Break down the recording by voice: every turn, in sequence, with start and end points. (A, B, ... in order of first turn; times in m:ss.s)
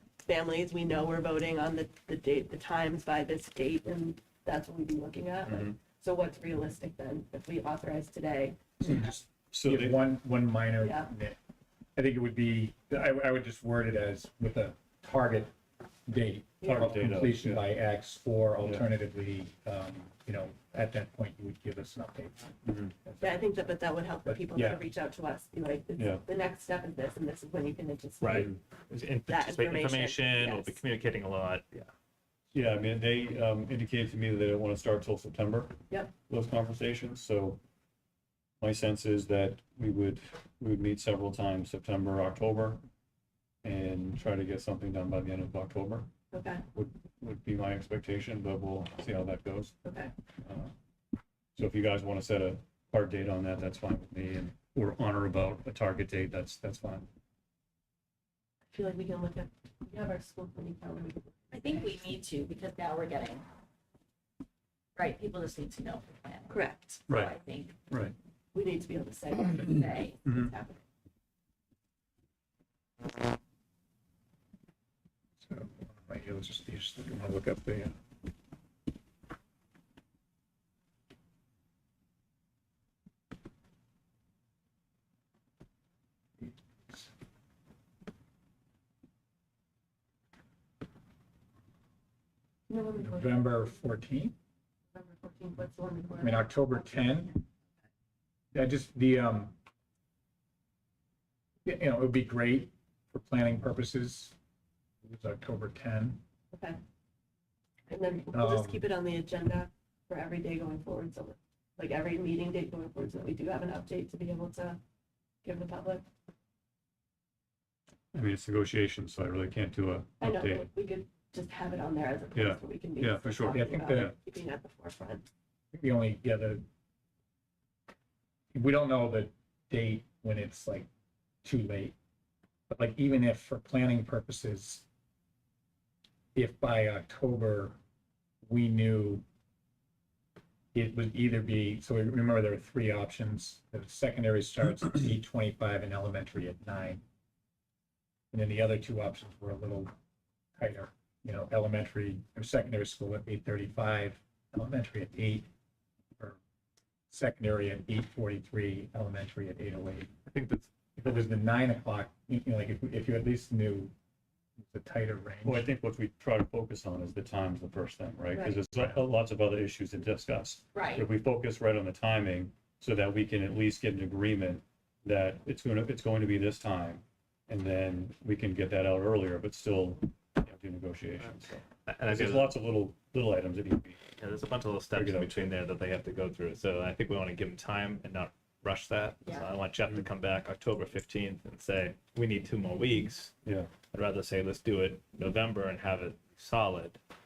0:00.2-0:09.2 A
0:05.5-0:05.8 B
0:08.8-0:10.0 B
0:09.6-0:11.4 C
0:10.8-0:11.1 A
0:12.0-0:15.5 C
0:16.1-0:24.8 C
0:16.6-0:16.9 A
0:16.6-0:17.7 B
0:18.6-0:18.9 B
0:22.6-0:22.9 B
0:23.2-0:28.6 A
0:26.0-0:26.2 B
0:28.2-0:31.9 D
0:29.3-0:30.8 A
0:32.5-0:35.8 B
0:36.3-0:37.6 B
0:38.6-0:42.8 B
0:43.6-0:46.1 B
0:46.3-0:46.6 A
0:46.7-0:49.8 B
0:49.8-0:50.1 A
0:50.4-0:50.7 B
0:51.6-0:57.1 B
0:58.7-1:02.0 A
1:01.5-1:03.4 E
1:05.0-1:07.8 E
1:06.5-1:07.0 A
1:07.1-1:07.4 B
1:08.5-1:10.8 A
1:09.5-1:10.2 E
1:15.4-1:18.0 C
1:26.4-1:27.1 C
1:32.7-1:33.7 A
1:33.0-1:34.4 C
1:34.9-1:37.2 A
1:36.2-1:37.4 C
1:38.5-1:39.6 C
1:41.6-1:44.4 C
1:45.0-1:46.2 C
1:46.5-1:46.8 A
1:47.9-1:54.8 A
1:48.3-1:48.8 C
1:55.4-1:56.0 A
1:58.1-2:00.7 B
2:00.2-2:05.3 A
2:02.4-2:04.2 B
2:03.5-2:04.1 C
2:05.7-2:06.6 C
2:08.5-2:10.9 C
2:11.4-2:12.0 C
2:12.7-2:14.8 C
2:16.4-2:17.8 C
2:18.4-2:19.2 C
2:20.7-2:27.0 C
2:28.3-2:29.9 C
2:30.6-2:35.5 C
2:37.1-2:40.1 C
2:40.3-2:40.7 D
2:41.0-2:43.9 C
2:44.6-2:45.7 C
2:45.4-3:04.0 B
2:48.4-2:48.6 A
2:50.7-2:51.1 E
3:01.8-3:02.6 D
3:04.2-3:13.3 D
3:04.9-3:05.4 B
3:13.4-3:13.7 B
3:13.9-3:17.0 D